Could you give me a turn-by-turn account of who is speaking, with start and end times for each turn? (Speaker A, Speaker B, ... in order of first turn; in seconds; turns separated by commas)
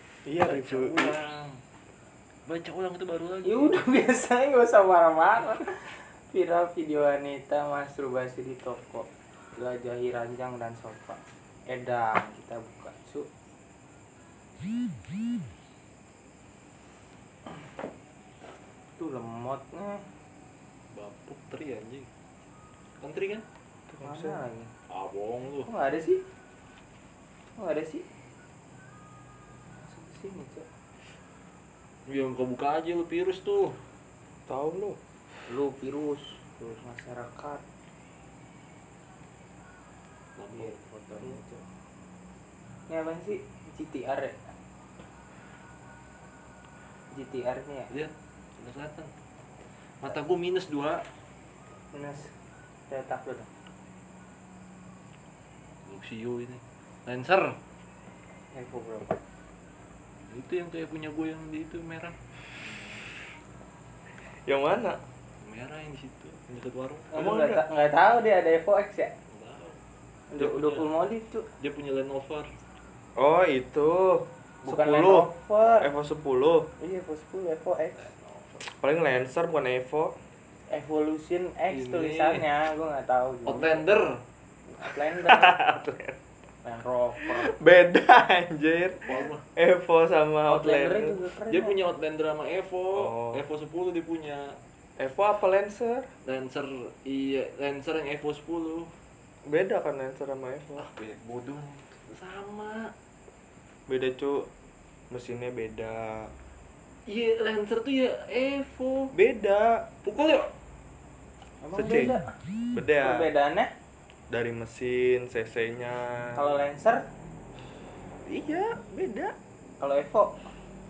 Speaker A: 0.3-1.1, Speaker B: 0.4-1.6, Speaker B: 2.5-3.8, Speaker C: 3.5-13.3, Speaker C: 19.0-20.1, Speaker B: 20.9-22.1, Speaker B: 23.0-23.4, Speaker A: 23.9-24.4, Speaker C: 24.0-24.7, Speaker B: 24.9-25.7, Speaker C: 25.6-26.2, Speaker C: 27.6-28.1, Speaker C: 29.8-30.7, Speaker B: 32.1-33.8, Speaker A: 34.5-35.0, Speaker C: 35.5-37.6, Speaker B: 40.4-40.8, Speaker C: 40.5-41.6, Speaker C: 42.9-44.5, Speaker C: 47.1-47.9, Speaker B: 47.9-49.1, Speaker B: 50.0-51.0, Speaker C: 51.9-52.3, Speaker C: 52.9-53.5, Speaker B: 55.9-57.6, Speaker C: 58.5-59.2, Speaker B: 60.3-63.1, Speaker A: 64.5-65.0, Speaker B: 65.4-67.2, Speaker C: 67.1-69.1, Speaker A: 67.1-67.6, Speaker B: 69.3-69.8, Speaker C: 70.3-71.5, Speaker B: 70.4-70.9, Speaker B: 71.6-72.5, Speaker A: 73.2-75.3, Speaker C: 74.7-75.9, Speaker A: 75.8-76.7, Speaker C: 76.8-78.1, Speaker B: 78.0-78.7, Speaker A: 78.7-80.1, Speaker C: 80.7-83.9, Speaker B: 81.7-82.5, Speaker B: 83.5-84.2, Speaker C: 84.8-85.6, Speaker A: 85.1-86.2, Speaker C: 86.6-87.5, Speaker A: 87.2-91.2, Speaker B: 89.0-89.4, Speaker C: 90.5-91.8, Speaker B: 91.5-94.6, Speaker A: 93.0-93.4, Speaker A: 95.0-96.1, Speaker B: 96.2-98.9, Speaker A: 99.5-100.9, Speaker B: 100.8-102.9, Speaker A: 103.9-104.5, Speaker A: 105.1-106.3, Speaker B: 107.1-109.1, Speaker A: 109.1-109.9, Speaker B: 110.0-110.5, Speaker C: 111.6-112.3, Speaker A: 111.7-112.2, Speaker A: 112.7-113.3, Speaker C: 113.0-113.7, Speaker A: 114.3-116.5, Speaker C: 116.3-117.0, Speaker A: 118.3-119.3, Speaker C: 119.8-120.5